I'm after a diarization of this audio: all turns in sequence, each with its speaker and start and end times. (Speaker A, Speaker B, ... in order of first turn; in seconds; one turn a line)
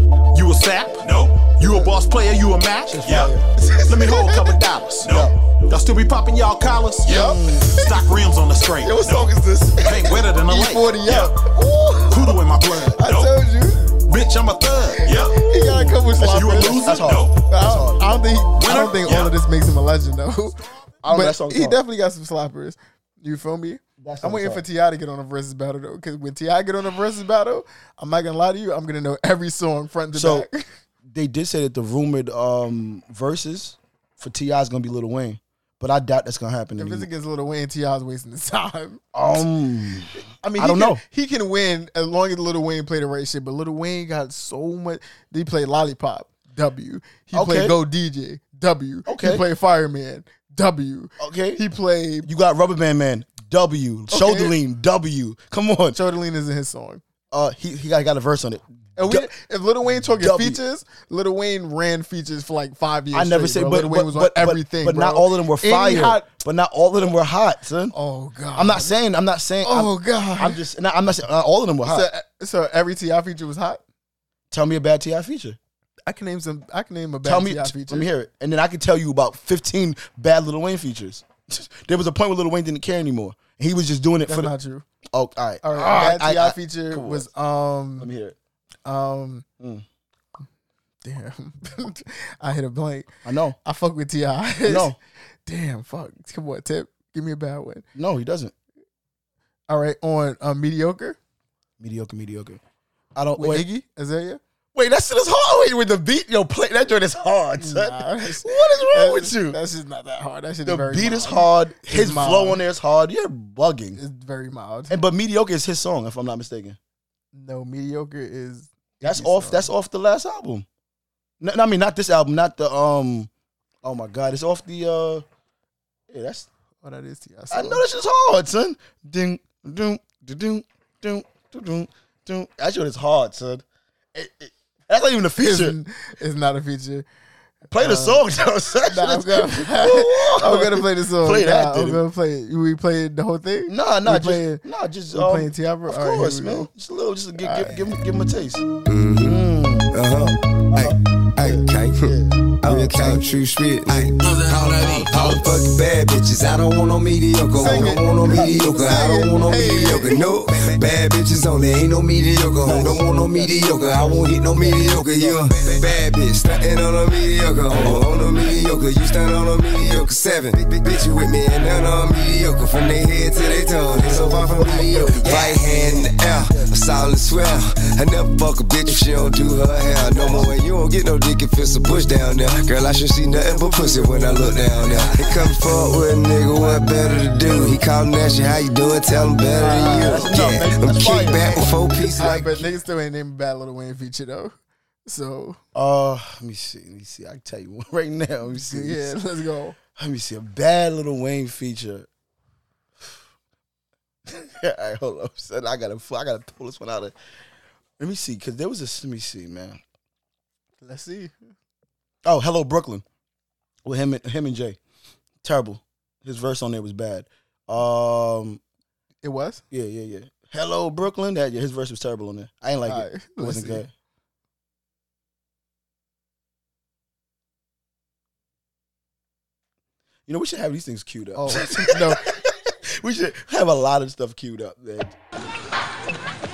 Speaker A: 0.3-3.3
Speaker B: 1.6-1.9
Speaker B: 2.9-4.3
Speaker A: 3.9-11.5
Speaker C: 3.9-4.4
Speaker B: 5.0-5.3
Speaker B: 7.1-7.9
Speaker C: 7.1-8.1
Speaker B: 8.8-10.8
Speaker C: 9.8-12.3
Speaker A: 12.1-13.3
Speaker C: 13.0-13.8
Speaker A: 14.1-15.4
Speaker C: 15.0-30.7
Speaker B: 15.5-18.2
Speaker A: 16.2-17.4
Speaker A: 18.6-19.4
Speaker B: 21.0-21.8
Speaker B: 24.0-24.6
Speaker B: 30.1-30.5
Speaker B: 31.1-37.1
Speaker C: 36.8-39.0
Speaker B: 39.1-41.0
Speaker C: 40.5-52.3
Speaker B: 47.3-47.8
Speaker B: 49.1-49.4
Speaker B: 51.2-51.6
Speaker B: 52.2-56.0
Speaker C: 54.1-54.5
Speaker C: 55.9-57.0
Speaker B: 57.3-59.3
Speaker C: 59.0-66.3
Speaker B: 60.0-60.6
Speaker B: 63.1-68.0
Speaker C: 67.9-68.9
Speaker B: 68.5-72.1
Speaker C: 69.6-70.6
Speaker C: 71.8-73.8
Speaker B: 74.5-75.6
Speaker C: 76.1-78.1
Speaker B: 77.2-84.5
Speaker C: 84.3-84.8
Speaker B: 85.1-87.3
Speaker C: 85.6-88.1
Speaker B: 88.0-88.4
Speaker C: 88.9-89.5
Speaker B: 89.6-89.8
Speaker C: 91.0-93.1
Speaker B: 93.2-93.6
Speaker C: 93.7-94.9
Speaker B: 94.6-95.0
Speaker C: 95.5-97.8
Speaker B: 98.0-98.5
Speaker C: 99.7-101.2
Speaker B: 101.8-102.6
Speaker B: 103.2-103.7
Speaker C: 103.4-104.4
Speaker B: 104.8-109.6
Speaker C: 107.6-112.6
Speaker B: 110.7-114.0
Speaker C: 114.0-115.0
Speaker B: 114.9-116.8
Speaker C: 117.3-119.7
Speaker B: 119.0-120.7
Speaker B: 121.4-123.3
Speaker B: 123.8-125.2
Speaker B: 126.1-126.5
Speaker C: 126.8-127.8
Speaker B: 127.5-135.8
Speaker C: 135.4-137.1
Speaker C: 137.7-138.2
Speaker B: 137.7-142.0
Speaker C: 138.9-146.7
Speaker B: 143.7-148.7
Speaker C: 147.4-147.9
Speaker D: 148.8-192.7
Speaker B: 149.2-150.0
Speaker B: 150.7-153.4
Speaker C: 157.6-158.0
Speaker B: 157.6-160.8
Speaker C: 158.8-160.2
Speaker B: 162.6-166.0
Speaker B: 167.7-168.1
Speaker B: 174.1-176.7
Speaker B: 178.9-180.6
Speaker B: 183.5-185.5
Speaker B: 186.5-187.8
Speaker B: 189.5-192.6
Speaker C: 189.6-190.3
Speaker C: 192.2-194.6
Speaker C: 195.1-195.6
Speaker B: 195.7-199.1
Speaker C: 198.5-199.8
Speaker B: 200.0-202.1
Speaker B: 204.3-207.1
Speaker B: 208.0-209.8
Speaker C: 210.8-211.3
Speaker B: 212.2-213.0
Speaker B: 213.8-214.8
Speaker B: 215.4-218.6
Speaker C: 219.2-219.6
Speaker B: 219.7-223.9
Speaker C: 222.9-223.9
Speaker B: 230.3-235.2
Speaker C: 231.4-232.3